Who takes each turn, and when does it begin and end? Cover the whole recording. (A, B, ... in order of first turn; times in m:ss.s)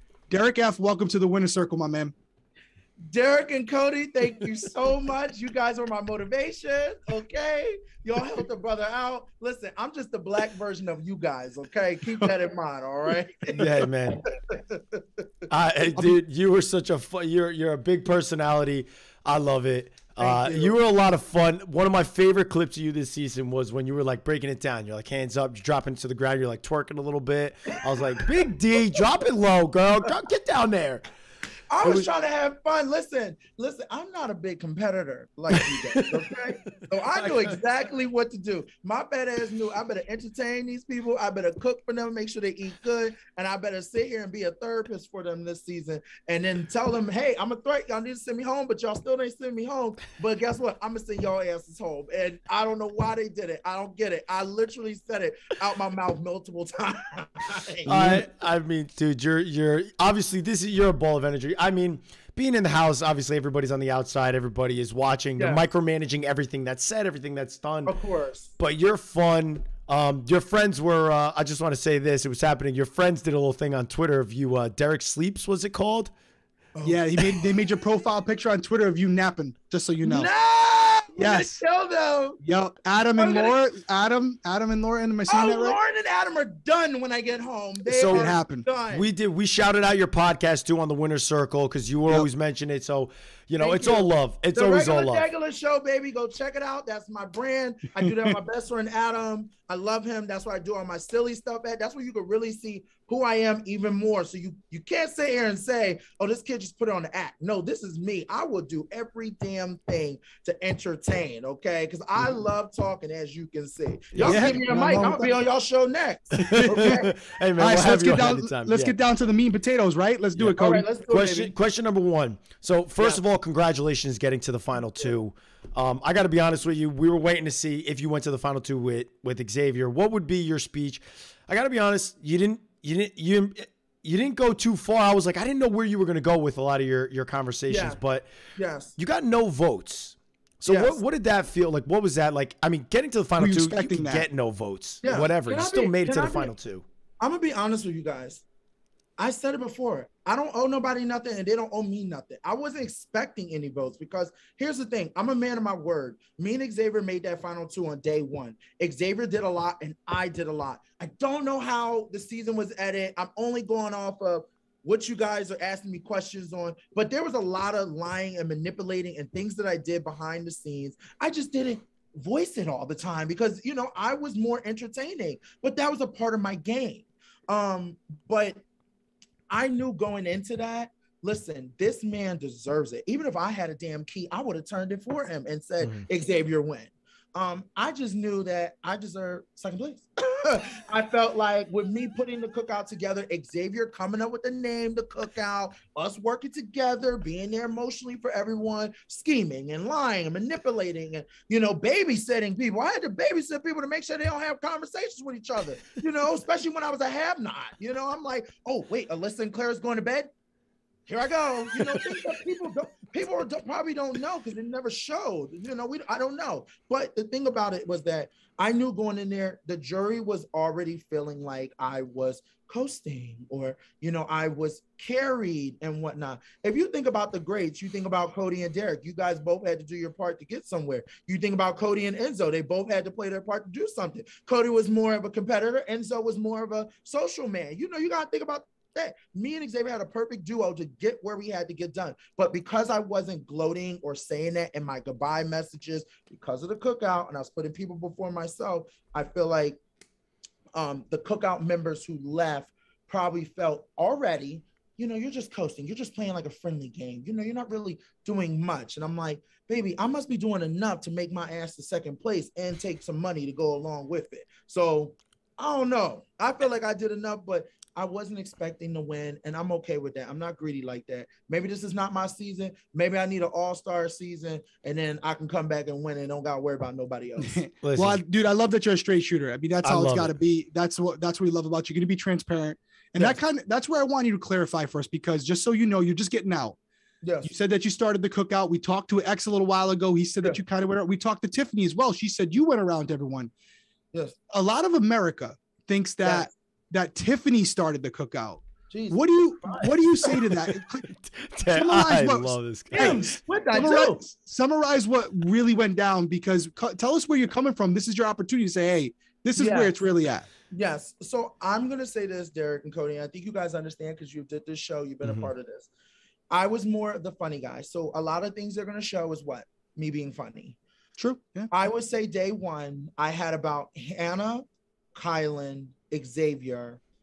0:00.3-0:02.1 A
0:03.1-0:13.7 B
0:13.5-0:14.2 C
0:14.4-0:15.2 B
0:15.5-0:31.0 C
0:15.9-0:16.2 A
0:20.2-0:20.8 B
0:31.7-0:58.2 B
0:31.8-0:32.1 C
0:35.5-0:36.1 C
0:57.9-1:07.9 C
0:57.9-0:58.2 A
1:05.4-1:05.6 B
1:07.8-1:08.5 B
1:08.6-1:16.1 C
1:16.7-1:17.3 B
1:16.8-1:20.3 A
1:20.0-1:22.4 B
1:21.2-1:21.6 A
1:22.4-1:25.8 A
1:23.2-1:23.6 B
1:25.3-1:29.1 B
1:27.9-1:28.3 C
1:28.1-1:28.6 A
1:28.9-1:35.3 C
1:33.6-1:57.1 B
1:38.0-1:38.3 A
1:54.1-1:54.5 C
1:54.2-1:55.3 A
1:56.4-1:58.9 C
1:56.4-1:57.0 A
1:57.6-2:00.8 A
2:00.3-2:18.3 C
2:00.5-2:01.5 B
2:03.0-2:03.2 B
2:17.7-2:18.0 B
2:18.6-2:18.9 B
2:19.0-2:26.8 C
2:20.6-2:21.0 B
2:23.4-2:24.3 A
2:25.0-2:26.5 B
2:27.2-2:28.4 B
2:29.2-2:58.6 B
2:59.5-3:30.3 B
3:31.1-4:09.8 B
4:10.7-4:37.6 B
4:37.4-4:46.8 A
4:37.8-4:38.2 C
4:39.8-4:40.3 C
4:47.2-4:47.5 B
4:47.4-4:53.5 A
4:54.5-5:01.1 A
4:56.2-4:56.5 B
4:58.9-5:00.3 B
5:01.3-5:03.3 C
5:01.7-5:10.4 A
5:02.9-5:04.2 B
5:09.6-5:09.9 B
5:10.7-5:15.9 B
5:15.2-5:15.5 C
5:16.5-5:20.8 B
5:21.2-5:21.7 A
5:21.7-5:27.0 B